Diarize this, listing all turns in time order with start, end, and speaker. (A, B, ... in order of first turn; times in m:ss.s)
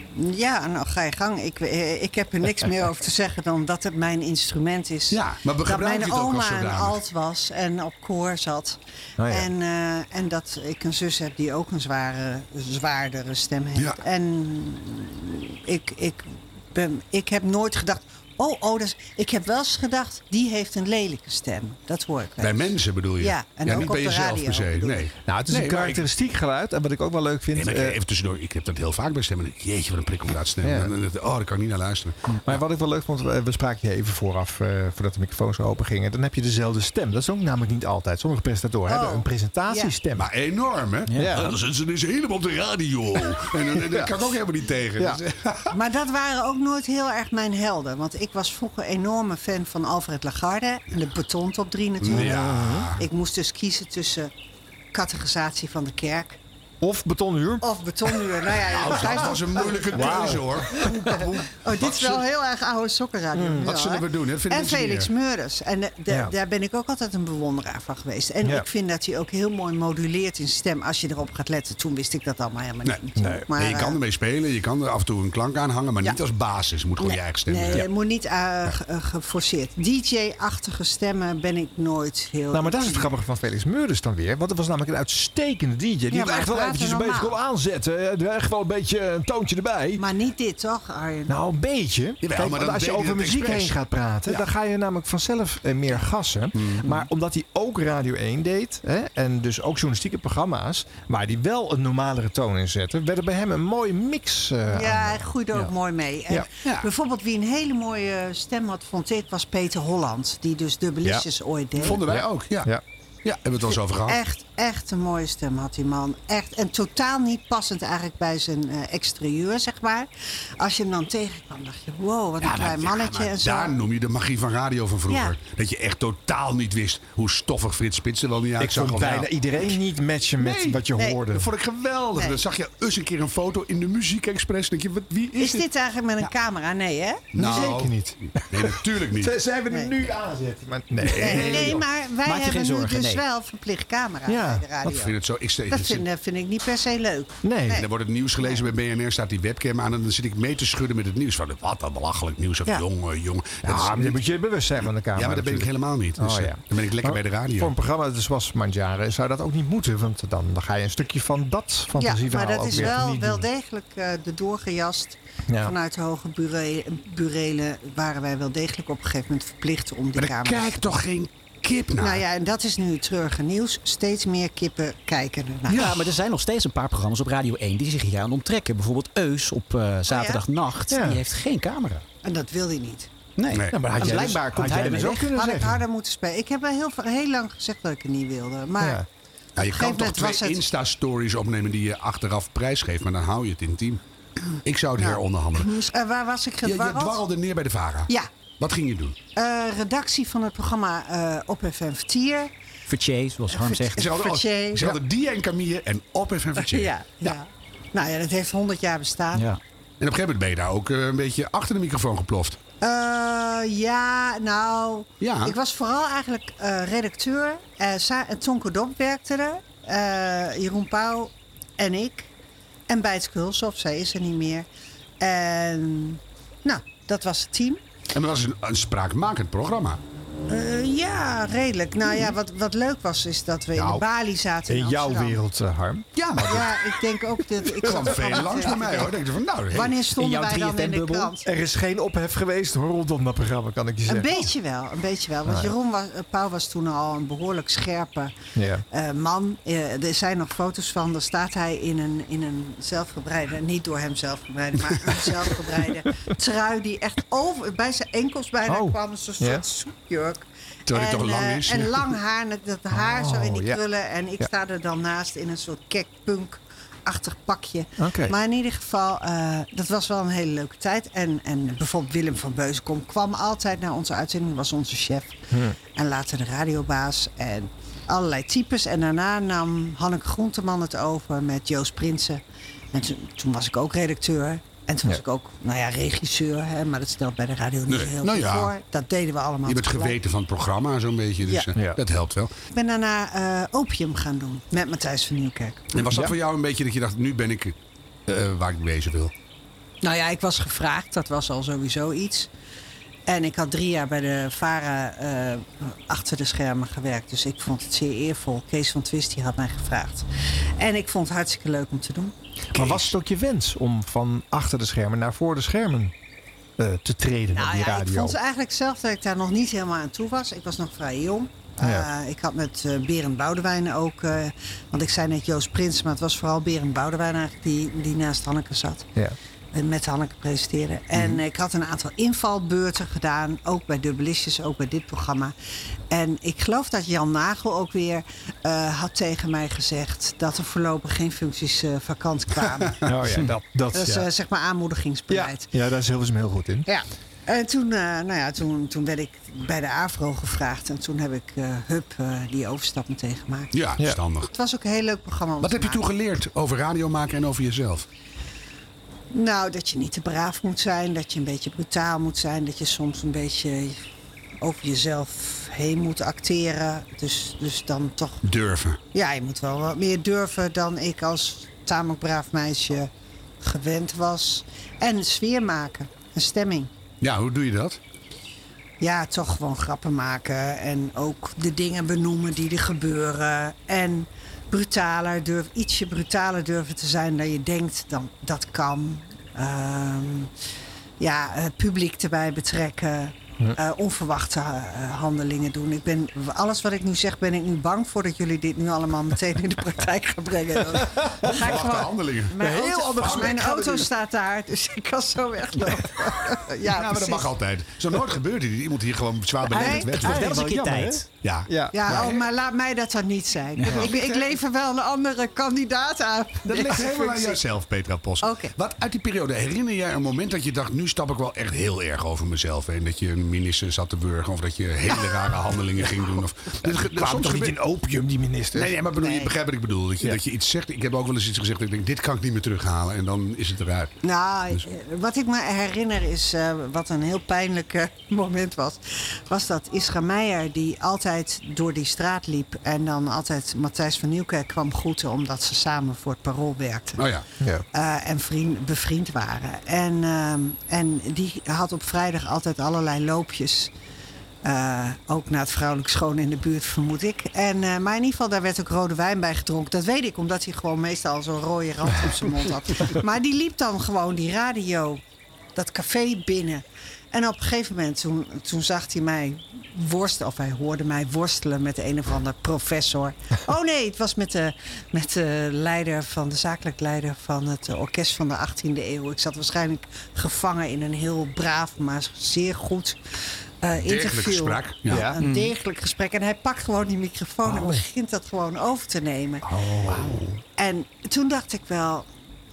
0:00.2-0:25.1 A
0:05.1-0:07.0 B
0:09.2-0:09.5 C
0:22.4-0:26.0 B
0:25.3-0:28.0 C
0:27.6-0:32.3 B
0:30.6-0:30.9 C
0:32.4-0:40.3 C
0:38.9-0:39.9 A
0:40.2-0:45.8 B
0:41.1-0:41.4 D
0:41.2-0:41.6 C
0:43.8-0:44.3 C
0:45.7-0:54.3 A
0:52.0-0:53.0 B
0:52.1-0:52.9 C
0:54.9-0:56.4 A
0:56.8-0:58.2 C
0:57.6-1:00.4 A
0:58.6-1:02.2 B
0:59.9-1:01.2 C
1:01.6-1:14.0 A
1:03.3-1:03.7 C
1:03.6-1:05.1 B
1:13.2-1:13.5 C
1:13.5-1:17.9 B
1:17.0-1:23.1 A
1:22.5-1:30.0 C
1:26.1-1:27.4 A
1:30.0-1:31.4 A
1:31.3-1:45.3 C
1:32.2-1:33.8 B
1:36.6-1:37.0 B
1:44.7-1:52.0 A
1:51.8-1:52.7 B
1:51.9-1:52.8 C
1:53.2-1:54.2 B
1:54.0-2:03.8 A
2:02.4-2:09.3 B
2:05.1-2:05.4 A
2:08.6-2:11.5 C
2:10.4-2:15.7 B
2:12.2-2:12.4 A
2:15.4-2:17.8 A
2:17.3-2:19.4 B
2:17.4-2:21.8 C
2:21.0-2:21.8 B
2:21.1-2:25.2 A
2:22.2-2:23.2 D
2:24.3-2:24.9 C
2:24.8-2:26.0 B
2:25.7-2:27.9 A
2:27.4-2:27.8 C
2:27.7-2:34.2 B
2:33.6-2:43.5 C
2:35.1-2:37.7 B
2:42.0-2:51.0 A
2:45.5-2:45.8 C
2:50.2-2:52.2 B
2:52.0-2:56.0 A
2:55.7-3:02.0 D
3:00.1-3:00.4 A
3:00.9-3:01.2 C
3:02.2-3:03.1 A
3:03.4-3:05.3 D
3:03.5-3:04.2 B
3:03.7-3:05.8 C
3:05.3-3:09.0 A
3:08.8-3:09.1 C
3:09.6-3:10.6 A
3:09.6-3:14.0 B
3:14.6-3:15.8 B
3:15.0-3:17.2 A
3:16.6-3:19.2 B
3:19.4-3:22.5 A
3:22.9-3:24.1 D
3:23.5-3:25.0 A
3:24.0-3:27.3 B
3:26.6-3:29.5 A
3:29.3-3:29.6 D
3:30.0-3:32.6 B
3:32.8-3:42.3 A
3:35.2-3:35.6 B
3:42.9-3:44.7 A
3:45.2-3:47.8 A
3:48.1-3:50.0 B
3:50.5-3:55.4 A
3:53.8-3:54.0 C
3:54.7-3:56.6 C
3:56.2-3:56.7 B
3:56.4-3:59.2 A
3:57.8-4:00.0 B
3:59.7-4:01.5 A
4:00.2-4:01.3 D
4:01.4-4:04.5 C
4:04.1-4:08.4 A
4:05.5-4:05.7 C
4:08.6-4:08.8 C
4:08.9-4:42.4 A
4:18.7-4:19.6 C
4:20.9-4:22.2 B
4:22.9-4:23.8 C
4:28.0-4:28.4 C
4:42.9-4:50.2 A
4:47.9-4:48.7 B
4:49.6-4:52.5 B
4:51.4-4:51.7 A
4:52.7-4:56.0 A
4:55.9-4:57.8 B
4:58.3-4:59.3 B
5:00.0-5:02.5 A
5:03.3-5:10.3 A
5:10.8-5:12.3 A
5:12.7-5:16.1 C
5:12.7-5:13.1 B
5:16.8-5:18.4 C
5:17.5-5:29.1 A
5:21.8-5:22.1 C
5:29.7-5:35.5 A
5:31.1-5:31.4 B
5:36.1-5:43.1 A
5:43.0-5:44.3 C
5:43.9-5:45.7 A
5:45.3-5:46.9 C
5:46.9-5:53.8 A
5:53.7-5:54.5 B
5:54.5-5:56.0 A
5:55.6-5:58.1 B
5:59.3-6:04.0 A
6:04.6-6:08.4 A
6:08.4-6:09.0 B
6:09.1-6:16.9 A
6:17.2-6:18.0 B
6:19.0-6:30.5 A
6:31.2-6:47.5 A
6:41.0-6:41.5 C
6:41.5-6:42.6 B
6:42.6-6:44.1 C
6:43.2-6:43.5 B
6:46.8-6:50.5 B
6:49.7-6:50.1 A
6:49.7-6:51.3 D
6:49.8-6:52.2 C
6:51.4-6:52.4 B
6:51.9-6:57.6 A
6:53.8-6:54.1 D
6:53.8-6:54.4 C
6:56.7-7:07.8 B
6:58.4-6:58.7 A
7:06.9-7:09.0 C
7:08.7-7:14.1 B
7:09.2-7:09.6 A
7:14.2-7:27.3 A
7:27.2-7:27.4 B
7:27.9-7:33.9 A
7:34.6-7:45.2 A
7:45.8-8:03.2 A
8:03.8-8:09.7 A
8:04.0-8:05.3 B
8:05.1-8:05.4 C
8:05.4-8:05.7 D
8:09.7-8:10.5 C
8:10.1-8:10.5 B
8:10.8-8:12.3 A